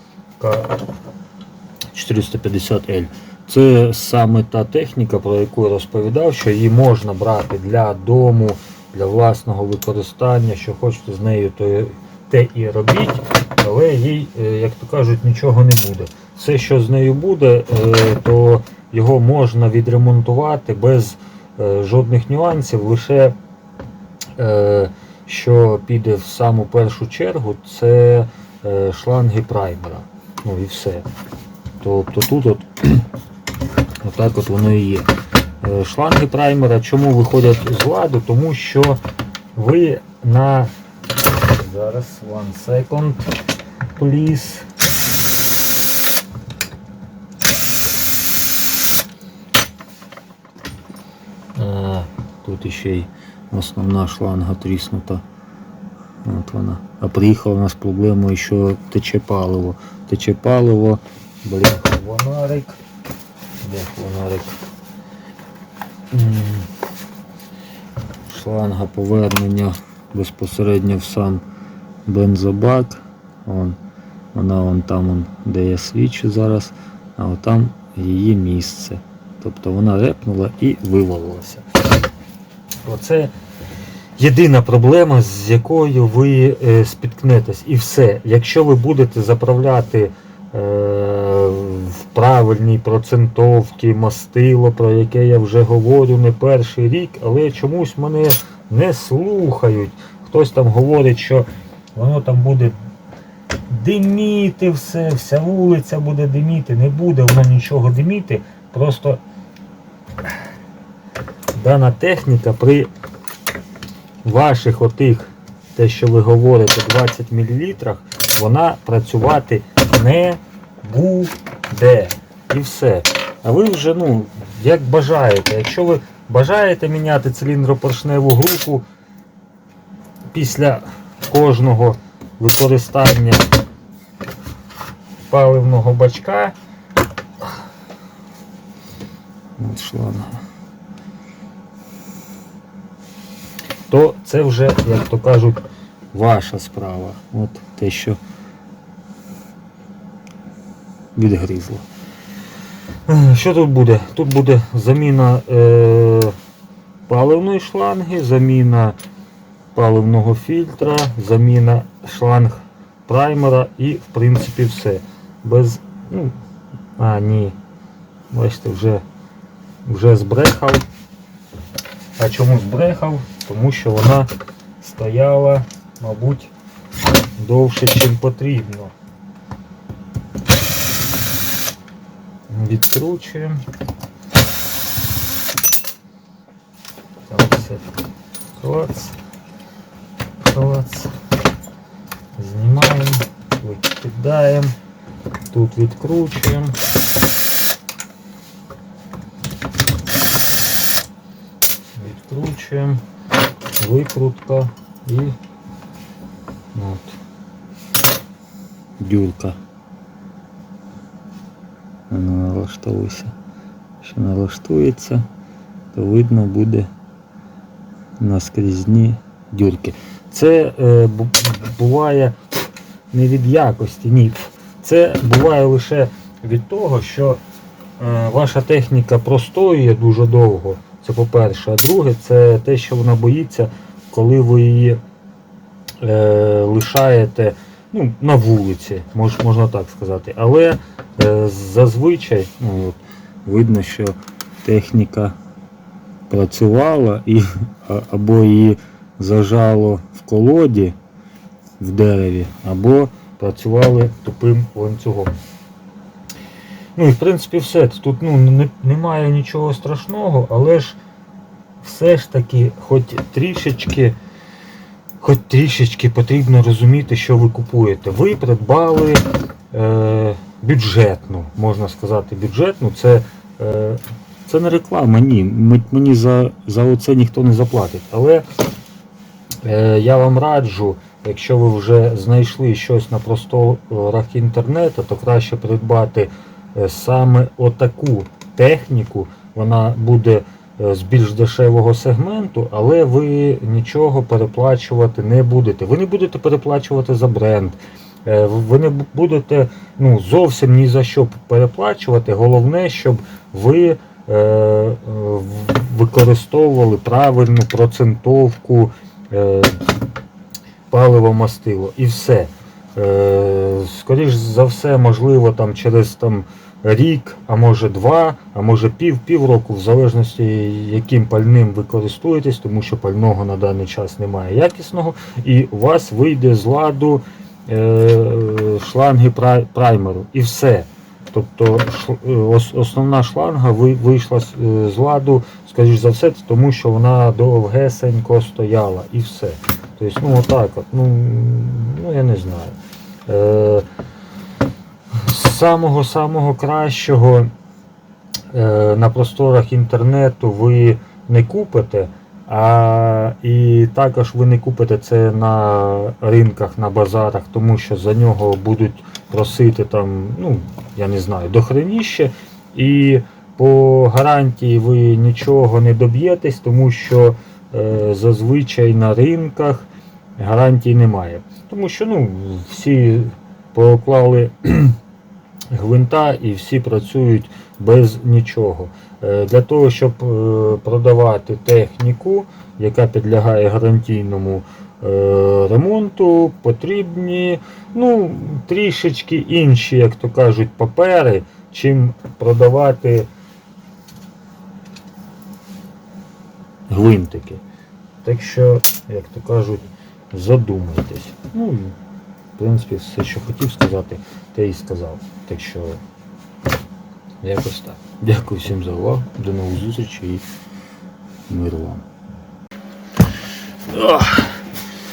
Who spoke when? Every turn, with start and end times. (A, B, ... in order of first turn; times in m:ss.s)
0:00.4-0:00.8 A
0:01.9-0:23.4 A
0:24.4-0:31.1 A
0:31.8-0:33.1 A
0:34.0-0:35.1 A
0:35.6-0:39.0 A
0:39.6-0:40.7 A
0:41.4-0:43.3 A
0:44.0-0:44.7 A
0:51.6-0:55.2 A
0:56.2-1:02.8 A
1:03.6-1:04.6 A
1:06.1-1:06.7 A
1:08.3-1:11.4 A
1:12.1-1:13.8 A
1:14.3-1:21.6 A
1:22.8-1:23.3 A
1:24.2-1:42.8 A
1:43.7-1:49.2 A
1:51.6-1:52.9 A
1:54.2-2:08.8 A
2:10.3-2:13.5 A
2:15.3-2:16.6 A
2:19.6-2:20.4 A
2:23.9-2:28.2 A
2:31.2-2:31.9 A
2:33.1-2:36.4 A
2:37.1-2:39.0 A
2:39.7-2:46.4 A
2:47.0-2:47.6 A
2:48.3-2:49.0 A
2:49.9-2:50.8 A
2:52.2-2:56.5 A
2:57.4-2:58.9 A
3:02.5-3:03.6 A
3:07.3-3:07.9 A
3:08.6-3:09.2 A
3:10.4-3:11.1 A
3:12.4-3:14.7 A
3:15.5-3:16.8 A
3:22.0-3:23.0 A
3:23.8-3:25.4 A
3:26.7-3:27.2 A
3:29.0-3:29.6 A
3:32.1-3:33.3 A
3:34.0-3:35.2 A
3:35.9-3:36.9 A
3:38.2-3:47.4 A
3:48.0-3:55.0 A
3:56.0-4:05.4 A
4:06.3-4:11.0 A
4:11.8-4:15.4 A
4:17.0-4:21.0 A
4:21.8-4:24.2 A
4:25.2-4:38.5 A
4:39.6-5:09.8 A
5:10.9-5:43.9 A
5:45.1-5:47.5 A
5:48.5-6:15.0 A
6:15.7-6:33.3 A
6:36.9-6:37.6 A
6:38.2-6:42.0 A
6:42.6-6:46.0 A
6:47.4-6:50.4 A
6:51.5-6:52.1 A
6:53.9-6:54.6 A